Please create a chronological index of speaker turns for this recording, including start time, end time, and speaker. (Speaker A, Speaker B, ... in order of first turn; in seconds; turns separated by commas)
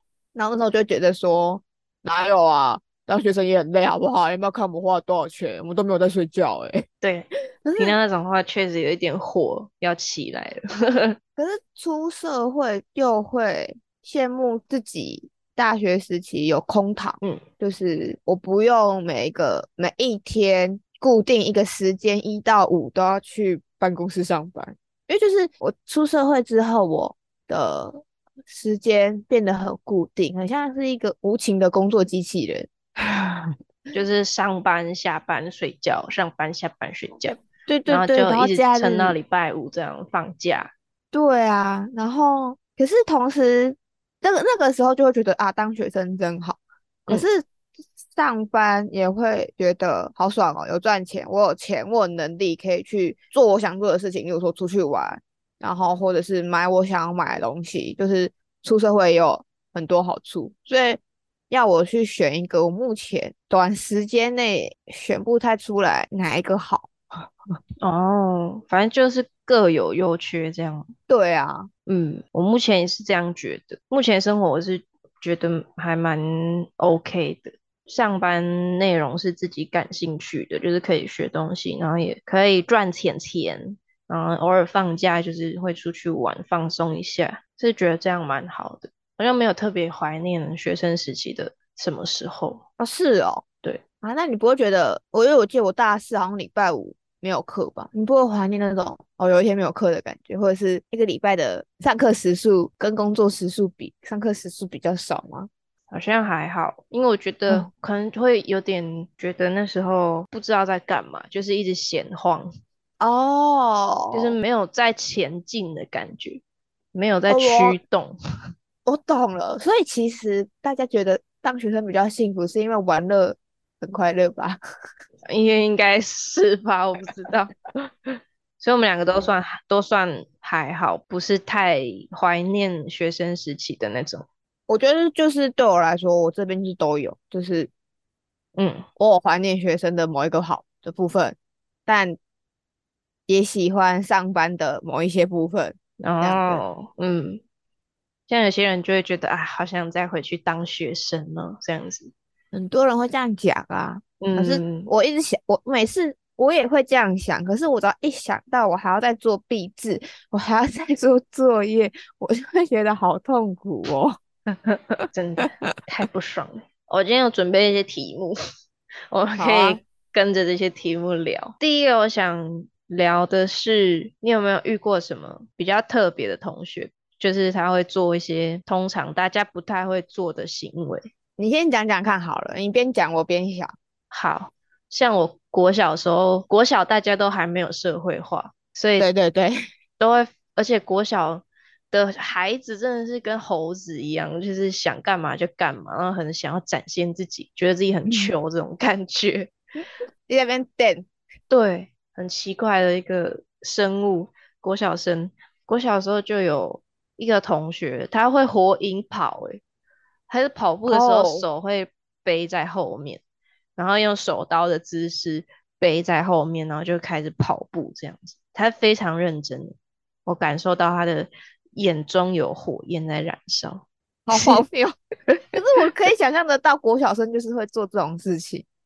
Speaker A: 0.3-6.9, Speaker B: 7.0-11.2, Speaker A: 7.6-8.0, Speaker A: 11.4-33.5, Speaker B: 33.9-40.7, Speaker A: 37.7-39.2, Speaker A: 41.1-47.5, Speaker A: 48.1-67.3, Speaker B: 67.8-70.9, Speaker A: 71.1-71.7, Speaker B: 71.9-92.6, Speaker A: 92.8-93.5, Speaker A: 94.0-105.5, Speaker B: 105.9-112.5, Speaker A: 113.0-114.4, Speaker B: 114.1-116.4, Speaker B: 116.9-118.2, Speaker A: 117.3-117.8, Speaker A: 118.9-124.6, Speaker B: 125.3-134.3, Speaker A: 134.7-137.7, Speaker B: 138.6-138.9, Speaker A: 139.0-142.2, Speaker A: 143.3-146.6, Speaker B: 146.0-147.4, Speaker B: 148.3-152.1, Speaker A: 152.5-164.2, Speaker B: 154.2-154.9, Speaker B: 164.5-168.4, Speaker B: 169.1-181.1, Speaker A: 169.4-169.8, Speaker A: 181.4-183.7, Speaker B: 184.1-189.1, Speaker A: 189.0-189.5, Speaker B: 190.0-199.5, Speaker A: 198.1-198.3, Speaker A: 200.3-201.1, Speaker B: 201.5-209.6, Speaker B: 210.3-213.2, Speaker A: 210.9-211.5, Speaker B: 213.8-224.6, Speaker A: 224.3-224.9, Speaker A: 225.5-228.7